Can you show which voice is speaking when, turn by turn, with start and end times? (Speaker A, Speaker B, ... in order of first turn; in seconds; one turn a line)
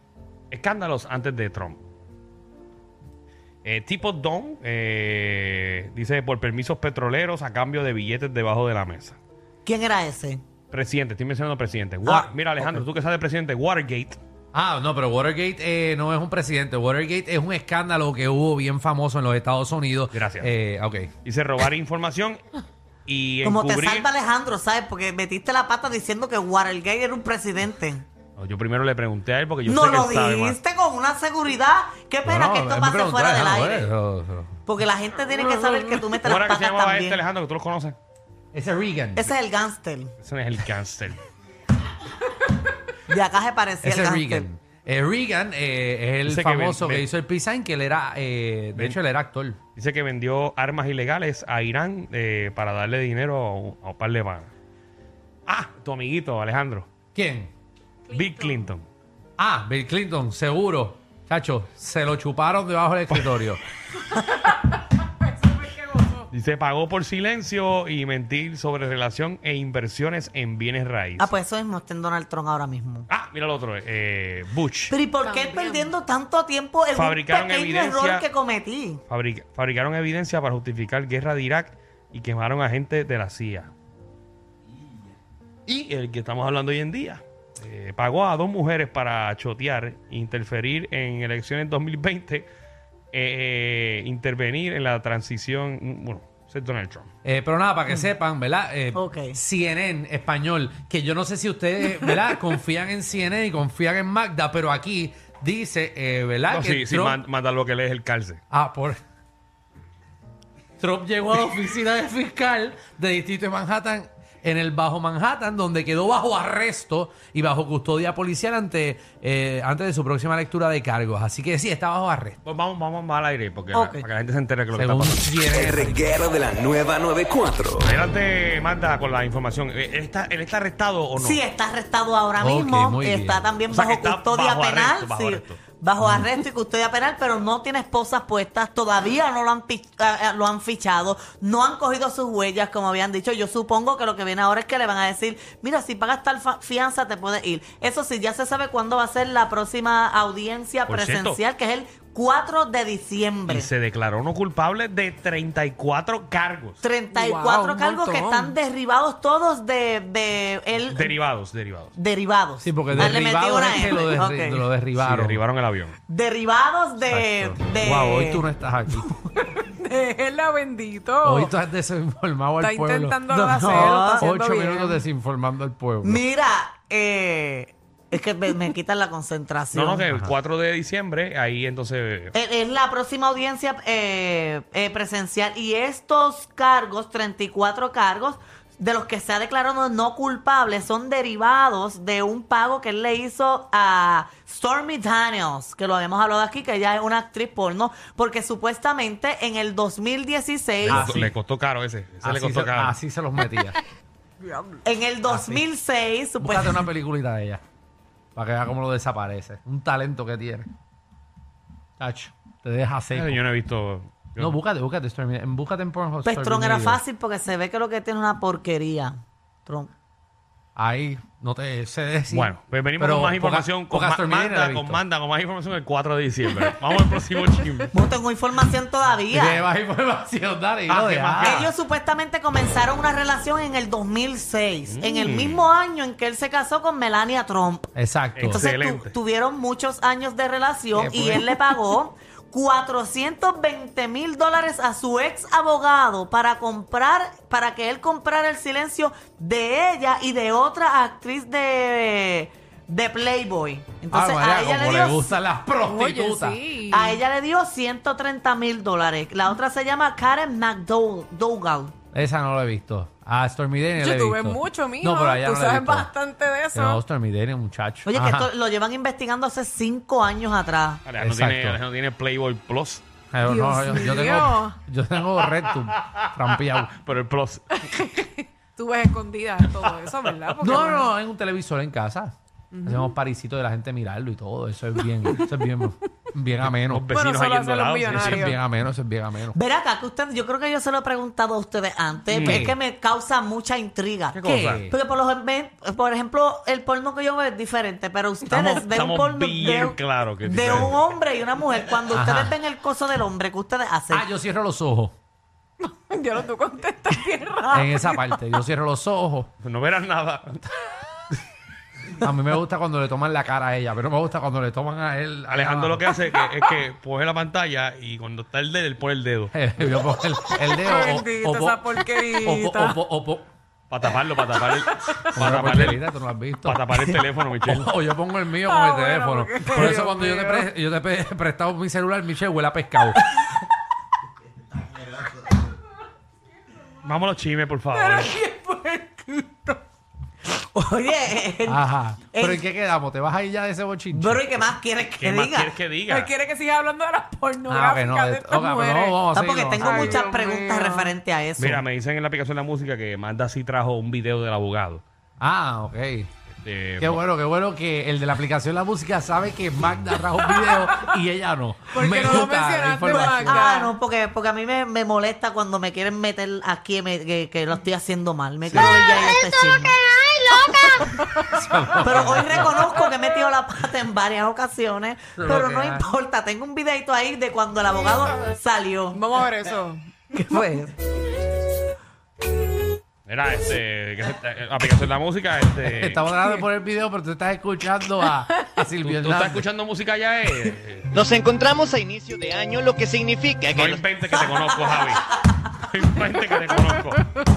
Speaker A: 0.5-1.8
Speaker A: 3.6-9.2
Speaker B: 9.6-10.4
Speaker A: 10.7-14.2
Speaker B: 12.0-12.8
Speaker C: 14.5-21.1
Speaker A: 20.1-20.5
Speaker A: 21.2-22.4
Speaker A: 23.1-24.1
Speaker B: 23.4-28.0
Speaker A: 28.4-30.6
Speaker B: 29.6-33.9
Speaker C: 32.2-34.5
Speaker B: 34.6-37.2
Speaker A: 36.2-38.0
Speaker C: 38.5-39.3
Speaker B: 39.1-40.1
Speaker A: 40.2-41.2
Speaker B: 43.1-44.5
Speaker C: 43.8-49.6
Speaker A: 46.2-47.0
Speaker A: 49.8-54.5
Speaker A: 55.5-56.9
Speaker C: 57.1-57.5
Speaker D: 58.1-58.6
Speaker A: 58.1-58.9
Speaker C: 59.4-63.6
Speaker D: 64.1-66.3
Speaker A: 66.3-71.3
Speaker B: 71.2-73.1
Speaker A: 73.1-75.0
Speaker B: 74.9-79.0
Speaker D: 75.2-75.9
Speaker A: 76.9-78.3
Speaker A: 79.1-83.7
Speaker A: 85.7-92.5
Speaker A: 93.1-97.1
Speaker C: 97.2-107.2
Speaker B: 98.9-99.4
Speaker A: 106.5-108.4
Speaker C: 108.5-109.0
Speaker C: 110.8-122.4
Speaker A: 122.4-125.3
Speaker B: 123.7-124.0
Speaker C: 124.7-126.1
Speaker E: 125.5-127.9
Speaker A: 127.8-131.4
Speaker B: 131.2-153.7
Speaker C: 132.4-133.5
Speaker A: 133.7-135.6
Speaker A: 150.9-151.4
Speaker A: 153.5-156.8
Speaker B: 156.8-161.1
Speaker D: 157.1-158.6
Speaker A: 160.9-161.9
Speaker B: 161.9-164.7
Speaker C: 162.6-165.4
Speaker A: 162.9-163.2
Speaker A: 165.0-165.9
Speaker B: 166.1-168.4
Speaker C: 167.1-169.1
Speaker D: 169.3-171.5
Speaker C: 171.2-176.2
Speaker D: 172.6-175.0
Speaker B: 173.3-174.3
Speaker B: 176.0-180.1
Speaker A: 179.7-182.3
Speaker B: 182.3-201.1
Speaker A: 200.8-202.9
Speaker C: 200.9-201.3
Speaker C: 202.2-203.8
Speaker B: 204.8-206.9
Speaker C: 205.3-205.6
Speaker C: 206.4-207.6
Speaker C: 208.3-210.7
Speaker C: 212.0-213.4
Speaker A: 213.1-214.6
Speaker C: 214.4-217.0
Speaker B: 216.2-219.9
Speaker C: 220.8-225.0
Speaker A: 222.3-227.9
Speaker D: 226.6-227.4
Speaker B: 227.9-229.6
Speaker C: 229.3-231.7
Speaker A: 230.9-231.7
Speaker B: 231.4-237.9
Speaker A: 234.9-235.6
Speaker C: 237.9-238.6
Speaker A: 238.3-239.1
Speaker B: 238.5-255.3
Speaker C: 240.9-241.6
Speaker C: 254.1-256.6
Speaker D: 255.8-257.2
Speaker B: 256.9-261.9
Speaker C: 262.1-266.1
Speaker D: 263.9-267.0
Speaker C: 266.7-268.5
Speaker B: 268.1-271.0
Speaker A: 271.1-273.0
Speaker C: 271.2-271.8
Speaker C: 273.3-276.9
Speaker D: 273.4-274.8
Speaker A: 276.0-277.8
Speaker D: 277.7-281.1
Speaker A: 279.6-280.6
Speaker C: 280.6-287.1
Speaker D: 282.7-283.1
Speaker A: 286.7-288.5
Speaker D: 287.1-288.5
Speaker C: 288.1-289.6
Speaker B: 289.5-304.3
Speaker A: 292.3-292.7
Speaker C: 292.4-292.8
Speaker A: 294.3-294.9
Speaker C: 294.4-294.9
Speaker A: 298.5-301.0
Speaker C: 300.6-300.9
Speaker C: 302.1-302.6
Speaker C: 304.1-305.1
Speaker D: 305.9-308.4
Speaker C: 307.7-309.5
Speaker A: 309.6-310.5
Speaker C: 312.2-316.1
Speaker A: 315.5-319.5
Speaker C: 319.5-323.5
Speaker D: 320.7-323.0
Speaker A: 323.9-326.0
Speaker D: 324.8-325.3
Speaker C: 325.3-333.2
Speaker A: 326.6-327.9
Speaker D: 328.6-330.6
Speaker A: 337.0-338.4
Speaker D: 337.9-339.8
Speaker B: 340.7-342.6
Speaker C: 341.7-344.4
Speaker B: 344.1-345.7
Speaker A: 345.2-346.3
Speaker D: 346.1-349.2
Speaker C: 347.7-350.1
Speaker B: 349.3-351.8
Speaker D: 349.8-351.1
Speaker A: 351.6-355.0
Speaker C: 355.4-356.3
Speaker A: 356.6-357.2
Speaker C: 357.0-363.6
Speaker D: 360.4-361.0
Speaker D: 361.9-363.9
Speaker B: 362.1-362.5
Speaker B: 363.1-370.0
Speaker C: 368.7-369.0
Speaker D: 370.8-371.4
Speaker C: 371.5-372.9
Speaker B: 372.0-379.2
Speaker C: 375.4-376.1
Speaker D: 379.1-380.1
Speaker B: 380.3-380.9
Speaker A: 383.3-386.2
Speaker C: 385.8-389.7
Speaker A: 389.0-391.1
Speaker F: 391.1-394.0
Speaker A: 393.7-397.2